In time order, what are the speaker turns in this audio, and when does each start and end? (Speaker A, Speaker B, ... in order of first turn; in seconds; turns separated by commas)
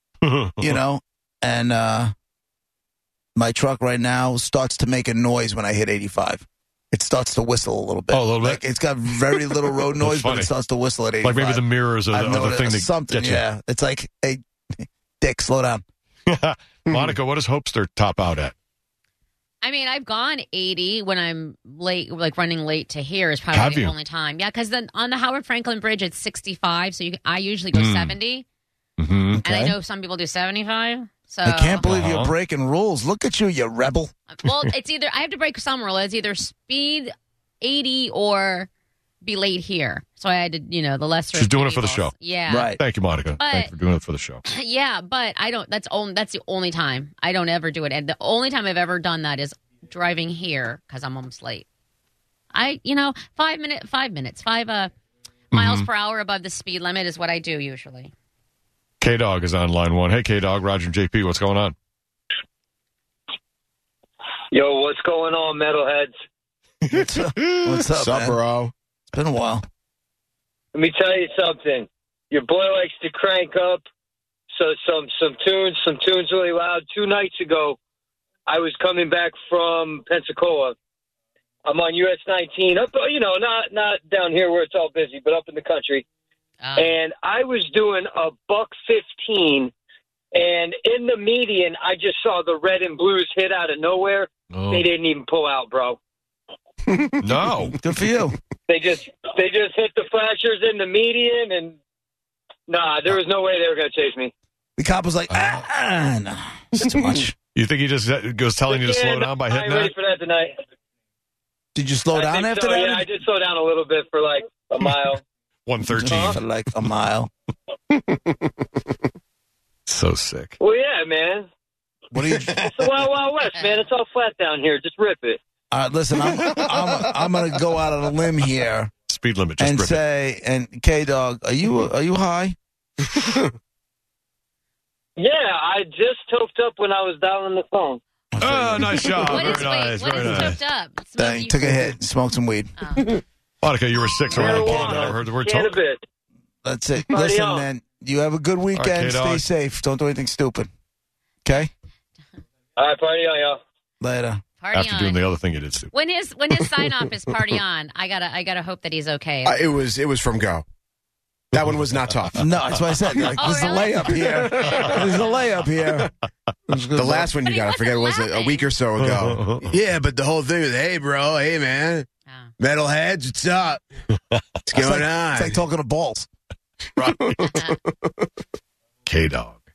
Speaker A: 0.2-0.8, Speaker B: 0.6-2.1, Speaker B: 3.3-15.8, Speaker A: 8.1-8.6, Speaker A: 9.4-10.5, Speaker A: 11.2-13.4, Speaker A: 16.3-18.5, Speaker C: 19.6-28.4, Speaker A: 23.5-23.9, Speaker A: 27.7-28.1, Speaker A: 29.0-29.4, Speaker B: 29.3-29.8, Speaker C: 29.4-31.8, Speaker B: 31.4-34.1, Speaker A: 31.8-32.3, Speaker C: 34.3-38.7, Speaker C: 39.2-42.7, Speaker A: 41.3-42.1, Speaker B: 42.5-42.8, Speaker A: 42.8-44.4, Speaker C: 43.4-43.7, Speaker C: 44.5-51.6, Speaker C: 52.5-54.9, Speaker A: 55.5-55.9, Speaker C: 55.5-58.1, Speaker A: 59.0-61.7, Speaker D: 64.5-66.1, Speaker B: 66.9-68.4, Speaker A: 66.9-67.8, Speaker E: 67.8-68.7, Speaker B: 69.1-69.6, Speaker D: 70.7-73.8, Speaker D: 74.5-77.8, Speaker D: 78.5-80.8, Speaker D: 81.6-86.0, Speaker C: 86.6-87.0, Speaker D: 86.8-89.7, Speaker D: 90.3-96.0, Speaker A: 94.5-94.9, Speaker A: 97.2-97.8, Speaker B: 97.8-98.4, Speaker D: 98.7-101.8, Speaker D: 102.7-104.3, Speaker B: 104.8-107.3, Speaker A: 105.3-105.6, Speaker A: 107.5-109.9, Speaker D: 108.7-110.5, Speaker B: 111.7-113.0, Speaker D: 112.1-115.2, Speaker A: 115.7-116.4, Speaker B: 115.9-117.3, Speaker D: 115.9-116.4, Speaker E: 117.9-118.5, Speaker A: 119.9-120.5, Speaker D: 120.6-121.5, Speaker B: 122.1-122.6, Speaker E: 122.2-122.7, Speaker D: 122.6-125.4, Speaker C: 123.5-123.9, Speaker B: 125.7-128.9, Speaker E: 126.3-127.1, Speaker A: 129.1-130.0, Speaker B: 129.6-132.6, Speaker D: 135.2-138.0, Speaker B: 138.3-139.6, Speaker A: 138.4-140.6, Speaker C: 139.1-141.9, Speaker B: 141.2-142.7, Speaker C: 142.8-143.1, Speaker A: 143.6-145.8, Speaker D: 144.3-146.0, Speaker B: 144.3-145.2, Speaker B: 146.6-150.7, Speaker D: 147.1-147.7, Speaker A: 148.7-149.4, Speaker B: 151.4-151.7, Speaker D: 152.8-153.6, Speaker B: 154.0-154.4, Speaker C: 154.6-155.2, Speaker A: 154.7-155.9, Speaker C: 155.9-159.6, Speaker E: 159.4-160.6, Speaker E: 161.5-163.3, Speaker A: 161.5-162.3, Speaker B: 162.4-166.1, Speaker C: 163.4-164.2, Speaker E: 164.1-165.2, Speaker E: 165.7-166.0, Speaker B: 166.7-167.3, Speaker E: 166.9-172.1, Speaker C: 167.4-168.7, Speaker A: 168.9-169.7, Speaker E: 172.6-173.8, Speaker E: 174.7-175.6, Speaker B: 174.7-176.3, Speaker E: 177.0-178.2, Speaker C: 177.5-177.8, Speaker A: 179.1-179.6